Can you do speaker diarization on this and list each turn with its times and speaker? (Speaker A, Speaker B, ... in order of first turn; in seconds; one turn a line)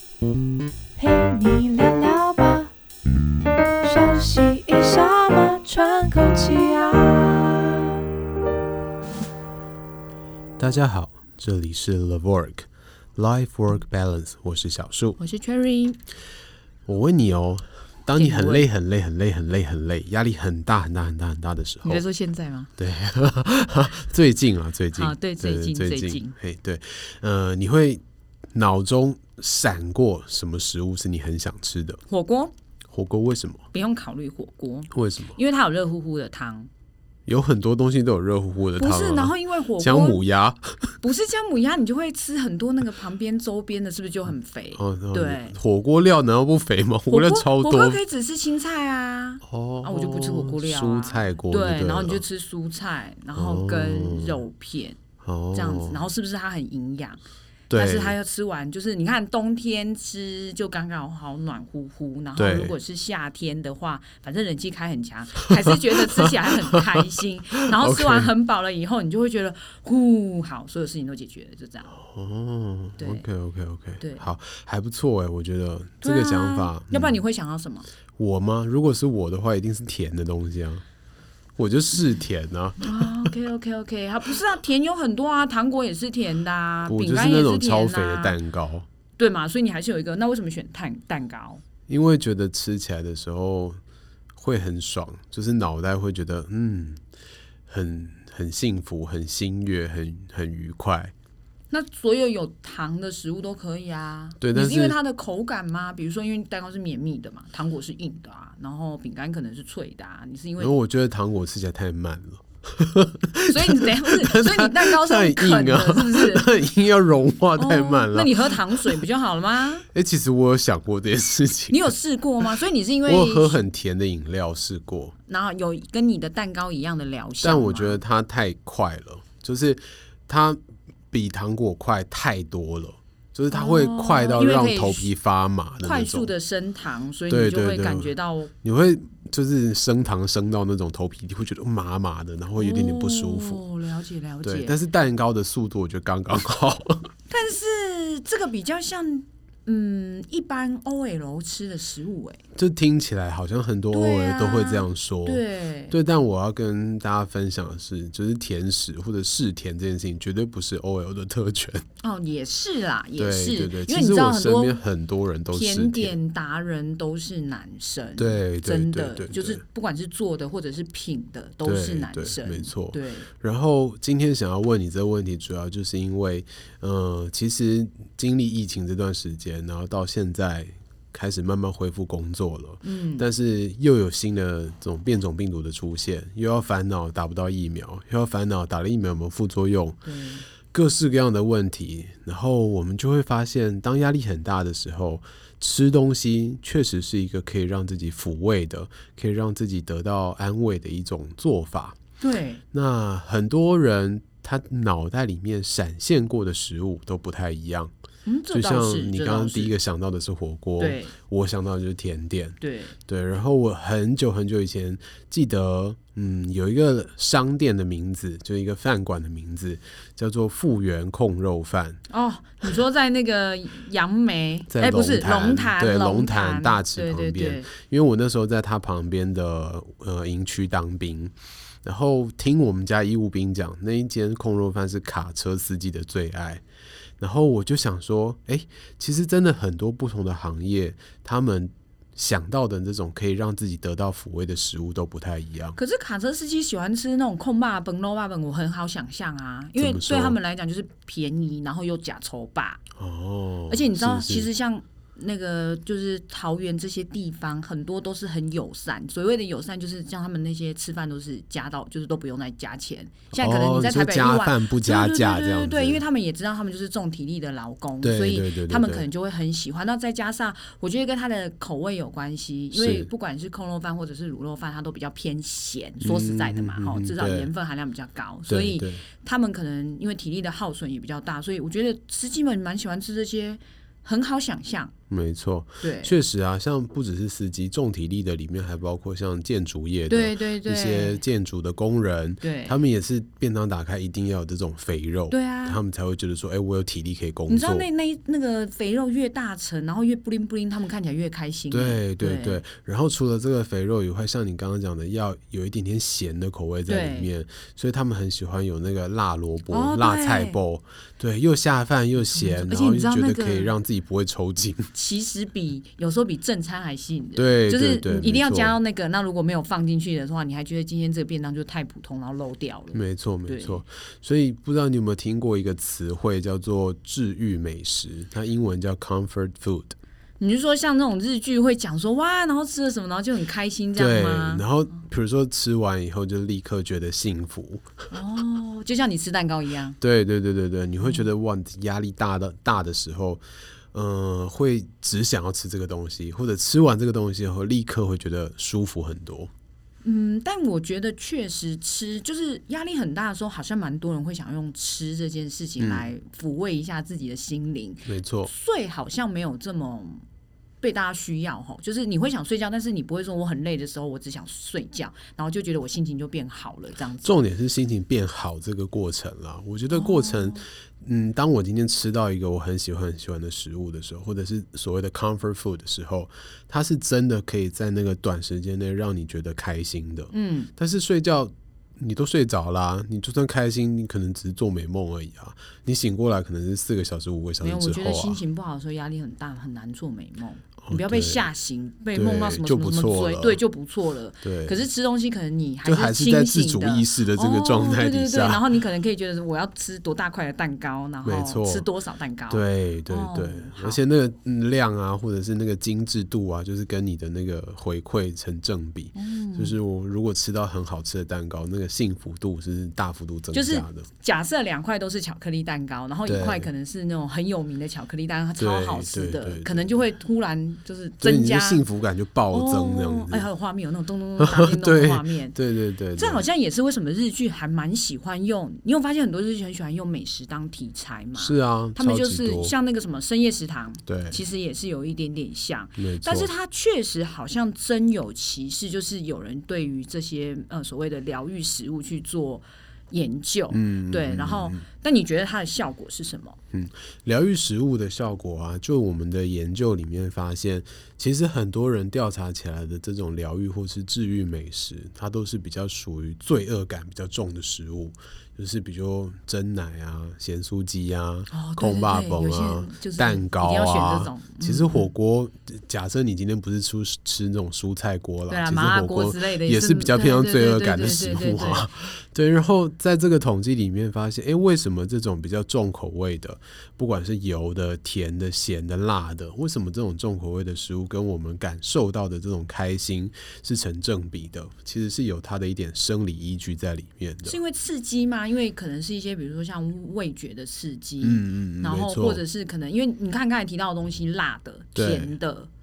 Speaker A: 1.0-2.7
Speaker B: 1.0-1.9
Speaker A: 3.9-7.5
Speaker B: 5.4-7.4
Speaker C: 10.6-15.2
Speaker B: 15.2-16.0
Speaker C: 16.9-22.1
Speaker B: 18.1-18.7
Speaker B: 21.8-22.7
Speaker C: 22.8-28.0
Speaker B: 24.9-26.4
Speaker C: 28.5-32.0
Speaker B: 32.1-32.5
Speaker C: 32.9-33.6
Speaker B: 33.7-36.7
Speaker C: 34.9-35.4
Speaker C: 37.3-40.9
Speaker B: 38.8-40.2
Speaker B: 41.0-45.5
Speaker C: 44.8-48.0
Speaker B: 47.1-55.0
Speaker C: 49.4-52.2
Speaker C: 53.3-54.4
Speaker C: 55.2-56.0
Speaker B: 55.5-57.2
Speaker C: 57.7-58.2
Speaker B: 57.7-72.0
Speaker C: 62.4-62.8
Speaker C: 66.0-67.0
Speaker C: 67.7-68.3
Speaker C: 72.0-77.2
Speaker B: 73.0-73.2
Speaker B: 74.0-74.3
Speaker B: 76.0-77.9
Speaker C: 78.2-80.8
Speaker C: 81.6-83.3
Speaker B: 82.8-88.4
Speaker C: 86.9-88.9
Speaker B: 89.2-91.6
Speaker C: 91.9-93.8
Speaker C: 94.3-97.0
Speaker C: 97.7-101.1
Speaker B: 101.7-110.7
Speaker C: 104.4-105.0
Speaker C: 110.6-119.0
Speaker B: 113.5-116.5
Speaker B: 117.6-119.9
Speaker C: 119.9-122.0
Speaker B: 121.7-123.6
Speaker C: 123.1-125.1
Speaker B: 125.3-128.0
Speaker C: 127.4-136.3
Speaker B: 133.5-135.1
Speaker B: 135.8-138.5
Speaker C: 137.3-143.6
Speaker B: 142.6-144.7
Speaker C: 144.4-147.1
Speaker B: 147.3-152.4
Speaker C: 152.6-161.8
Speaker B: 153.9-156.0
Speaker B: 162.0-164.8
Speaker C: 163.2-166.2
Speaker B: 165.5-173.3
Speaker C: 168.2-169.6
Speaker C: 171.6-190.0
Speaker B: 182.8-183.3
Speaker B: 190.1-190.5
Speaker C: 190.7-202.0
Speaker B: 202.2-202.6
Speaker C: 202.7-207.9
Speaker B: 208.2-209.8
Speaker C: 208.5-222.0
Speaker B: 210.8-211.1
Speaker B: 212.6-213.0
Speaker B: 222.1-227.7
Speaker C: 224.7-236.6
Speaker C: 237.2-245.8
Speaker B: 245.8-252.8
Speaker C: 249.8-250.4
Speaker C: 253.0-254.5
Speaker B: 253.7-284.9
Speaker C: 263.3-266.0
Speaker C: 268.0-269.1
Speaker C: 272.7-273.1
Speaker C: 276.0-277.5
Speaker C: 278.5-279.1
Speaker C: 285.1-297.9
Speaker B: 285.8-286.2
Speaker B: 290.1-291.2
Speaker B: 292.4-292.8
Speaker B: 295.3-295.8
Speaker B: 297.5-302.6
Speaker C: 301.7-314.9
Speaker B: 306.9-307.3
Speaker B: 309.7-310.6
Speaker B: 312.3-313.8
Speaker B: 314.9-323.8
Speaker C: 317.4-318.8
Speaker C: 322.9-329.9
Speaker B: 330.4-334.6
Speaker C: 334.0-338.0
Speaker B: 338.1-340.0
Speaker C: 340.0-349.5
Speaker B: 341.0-341.3
Speaker B: 350.0-360.2
Speaker C: 355.8-356.1
Speaker C: 358.1-358.5
Speaker B: 360.8-367.4
Speaker C: 367.2-388.4
Speaker B: 369.9-370.7
Speaker B: 380.3-380.7
Speaker B: 387.6-404.0
Speaker C: 390.9-391.4
Speaker C: 392.1-393.6
Speaker C: 394.4-394.8
Speaker C: 395.8-398.7
Speaker C: 401.2-401.9
Speaker C: 402.5-414.1
Speaker B: 409.1-409.8
Speaker B: 413.5-421.8
Speaker C: 416.3-416.7
Speaker C: 418.6-420.0
Speaker C: 421.2-423.5
Speaker B: 422.5-425.6
Speaker C: 424.4-426.4
Speaker B: 426.2-446.6
Speaker C: 431.4-432.7
Speaker C: 434.1-434.4
Speaker C: 436.0-436.5
Speaker C: 443.7-444.8
Speaker C: 446.7-487.6
Speaker B: 461.5-465.1
Speaker B: 468.5-471.9
Speaker B: 487.4-495.7
Speaker C: 491.2-492.4
Speaker C: 494.9-495.3